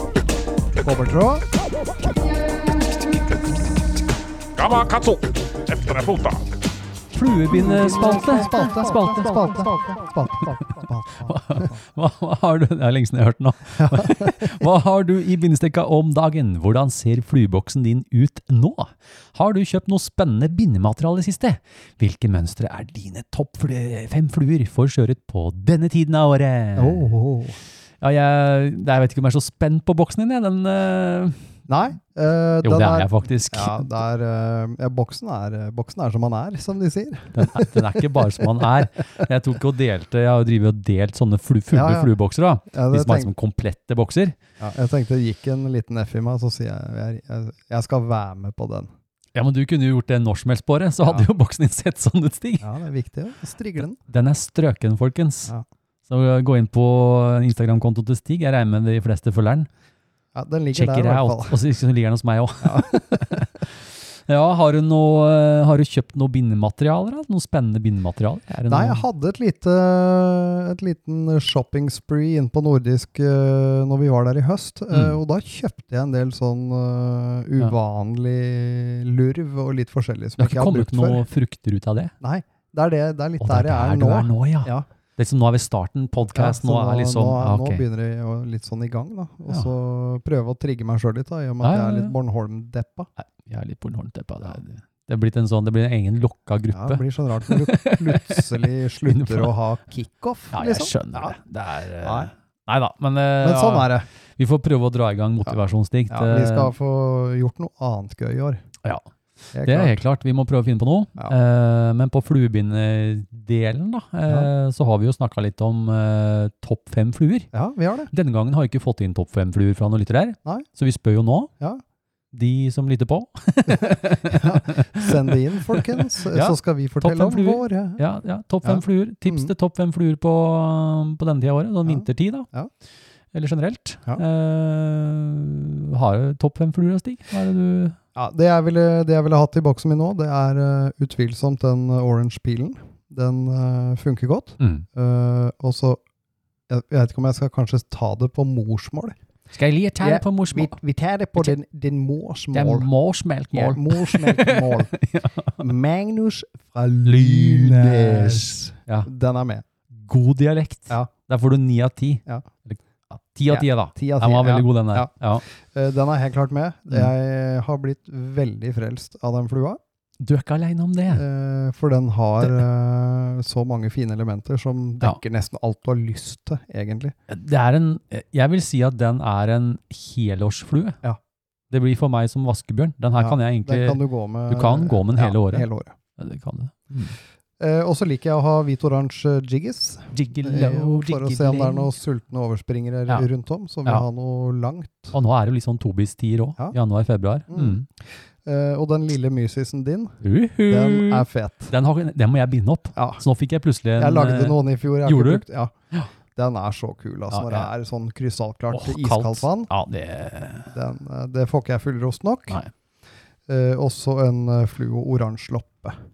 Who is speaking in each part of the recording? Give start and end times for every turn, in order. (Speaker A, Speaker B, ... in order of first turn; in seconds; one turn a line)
Speaker A: 0.8-1.4
Speaker B: 4.5-6.5
Speaker C: 7.1-9.7
Speaker A: 7.5-11.8
Speaker C: 11.2-27.1
Speaker A: 13.8-14.5
Speaker A: 26.8-27.6
Speaker C: 28.0-31.4
Speaker A: 31.7-37.8
Speaker C: 32.6-33.9
Speaker C: 37.3-44.4
Speaker A: 41.7-42.1
Speaker A: 42.7-43.3
Speaker A: 44.6-48.9
Speaker C: 49.3-52.6
Speaker A: 52.6-54.0
Speaker C: 54.0-55.5
Speaker C: 56.1-59.7
Speaker A: 60.3-61.5
Speaker C: 60.7-69.0
Speaker A: 62.6-63.3
Speaker A: 68.7-81.2
Speaker C: 74.9-75.2
Speaker C: 80.4-82.1
Speaker A: 82.2-84.8
Speaker C: 83.4-87.8
Speaker A: 86.2-93.1
Speaker C: 91.6-92.1
Speaker C: 93.2-99.5
Speaker A: 96.7-101.3
Speaker C: 100.5-106.7
Speaker A: 102.0-102.3
Speaker A: 103.4-104.1
Speaker A: 106.1-108.6
Speaker A: 109.5-110.0
Speaker C: 109.6-117.5
Speaker A: 117.5-118.1
Speaker C: 118.1-121.5
Speaker C: 122.3-132.5
Speaker A: 123.7-128.0
Speaker A: 128.6-129.5
Speaker A: 131.8-132.7
Speaker C: 133.3-138.0
Speaker A: 138.1-146.0
Speaker C: 144.6-144.8
Speaker A: 146.7-149.2
Speaker C: 149.5-150.8
Speaker A: 150.0-152.9
Speaker C: 152.5-155.7
Speaker A: 153.5-154.9
Speaker A: 155.6-159.6
Speaker C: 157.0-159.1
Speaker C: 159.9-165.4
Speaker A: 163.5-169.8
Speaker C: 170.2-171.2
Speaker A: 171.1-177.1
Speaker C: 177.3-181.0
Speaker C: 181.7-187.2
Speaker A: 183.2-185.9
Speaker A: 187.6-195.1
Speaker C: 190.1-191.9
Speaker C: 195.1-197.8
Speaker A: 197.5-201.7
Speaker C: 200.2-206.1
Speaker A: 202.9-203.2
Speaker A: 204.0-205.7
Speaker A: 206.3-209.7
Speaker C: 207.3-207.7
Speaker C: 208.7-210.7
Speaker A: 210.7-212.6
Speaker A: 213.5-216.0